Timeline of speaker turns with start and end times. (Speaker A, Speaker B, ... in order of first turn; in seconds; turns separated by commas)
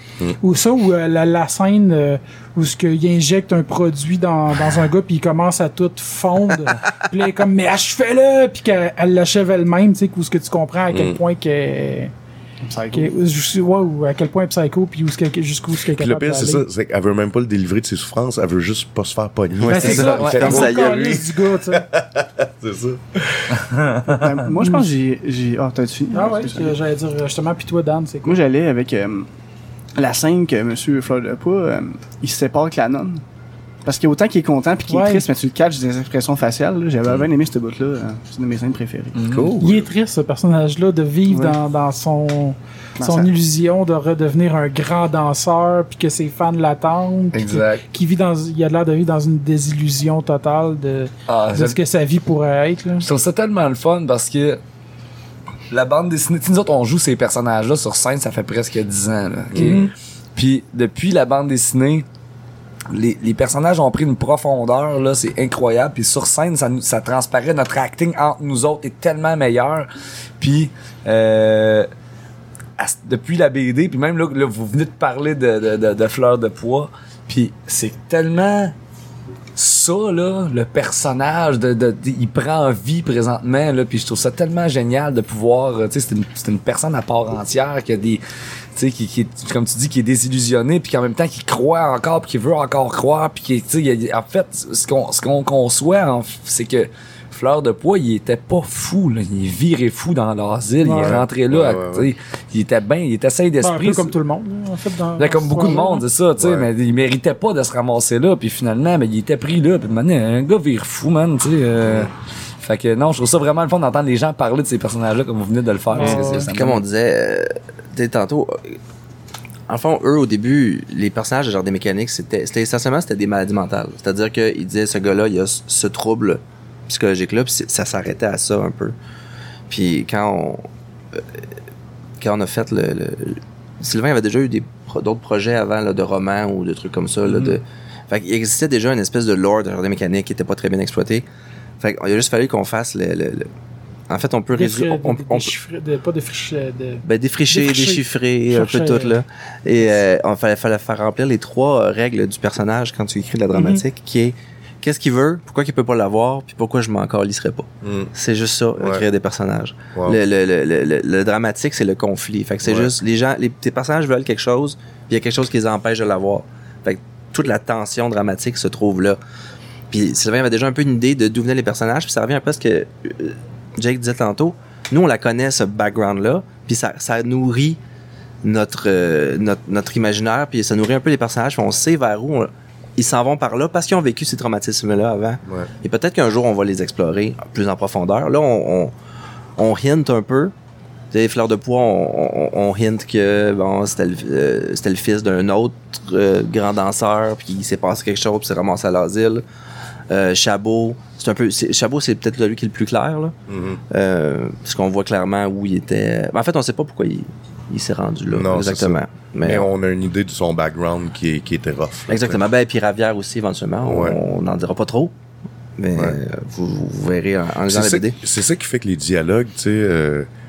Speaker A: 0.4-12.1, Speaker B: 10.9-11.2, Speaker C: 12.7-13.1, Speaker A: 12.9-16.7, Speaker B: 15.9-23.5, Speaker D: 19.6-21.1, Speaker A: 19.7-21.9, Speaker E: 19.7-20.7, Speaker E: 23.5-24.2, Speaker C: 24.1-26.7, Speaker A: 24.6-24.9, Speaker A: 26.1-28.4, Speaker C: 28.2-29.3, Speaker C: 30.0-33.2, Speaker C: 33.9-39.2, Speaker A: 34.9-35.3, Speaker E: 39.2-39.5, Speaker B: 39.2-39.9, Speaker A: 39.6-53.1, Speaker C: 43.0-43.3, Speaker E: 47.3-47.8, Speaker E: 51.3-51.8, Speaker E: 53.0-54.6, Speaker E: 55.7-62.0, Speaker B: 59.5-59.9, Speaker A: 59.6-59.9, Speaker E: 62.9-69.9, Speaker E: 70.4-71.9, Speaker E: 72.8-78.7, Speaker E: 79.6-88.2, Speaker E: 88.8-104.1, Speaker A: 100.8-101.2, Speaker B: 101.0-102.1, Speaker A: 103.6-106.0, Speaker E: 105.2-112.1, Speaker B: 106.4-106.7, Speaker B: 111.8-112.1, Speaker E: 112.6-116.8, Speaker A: 115.9-116.5, Speaker D: 116.1-118.8, Speaker D: 119.7-128.9, Speaker D: 129.7-131.2, Speaker D: 132.2-141.2, Speaker E: 137.3-137.6, Speaker D: 141.8-143.5, Speaker D: 144.1-145.5, Speaker A: 144.5-149.1, Speaker D: 147.1-169.2, Speaker A: 153.5-153.8, Speaker B: 157.8-158.1, Speaker B: 158.8-159.0, Speaker B: 159.9-160.2, Speaker B: 162.6-162.9, Speaker D: 169.9-177.8, Speaker D: 178.4-188.9, Speaker D: 189.6-190.5, Speaker D: 191.1-199.4, Speaker D: 200.1-203.3, Speaker B: 203.5-203.8, Speaker D: 203.9-209.7, Speaker B: 208.3-212.4, Speaker D: 212.1-215.1, Speaker B: 213.8-214.2, Speaker D: 215.8-218.2, Speaker B: 217.7-220.3